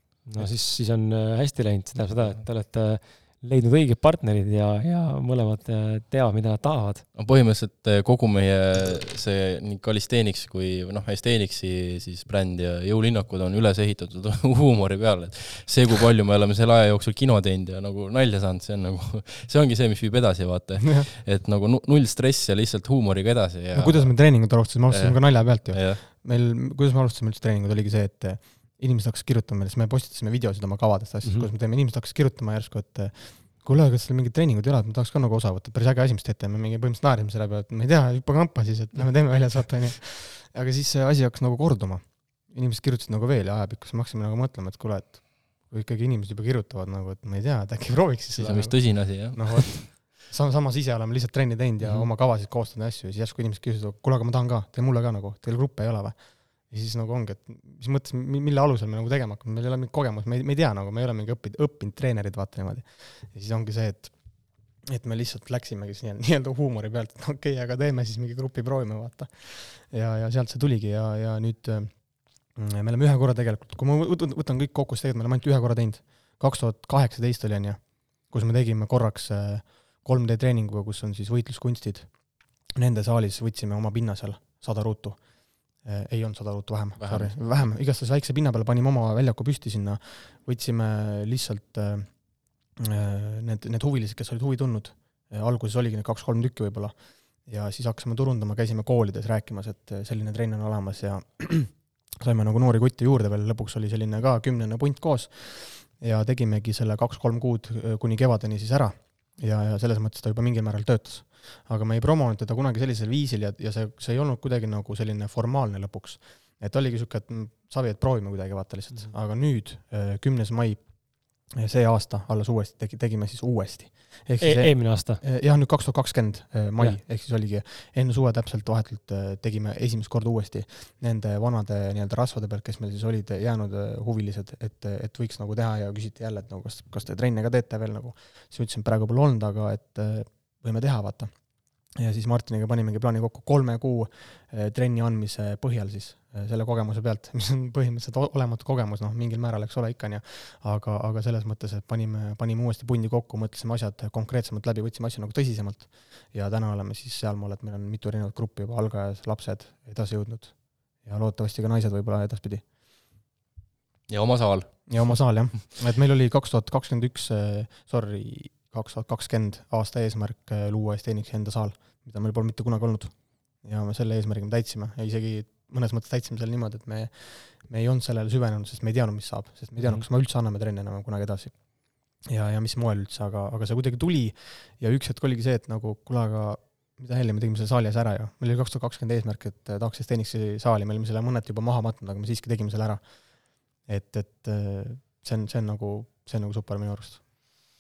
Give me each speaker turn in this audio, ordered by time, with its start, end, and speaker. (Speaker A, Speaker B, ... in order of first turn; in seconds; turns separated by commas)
Speaker A: 0.2-7.1, Speaker B: 7.2-26.0, Speaker C: 20.8-21.1, Speaker C: 23.7-141.3, Speaker A: 31.2-31.5, Speaker B: 48.4-49.9, Speaker B: 87.0-87.3, Speaker A: 124.4-125.2, Speaker C: 141.9-162.7, Speaker B: 164.1-165.3, Speaker C: 164.9-197.2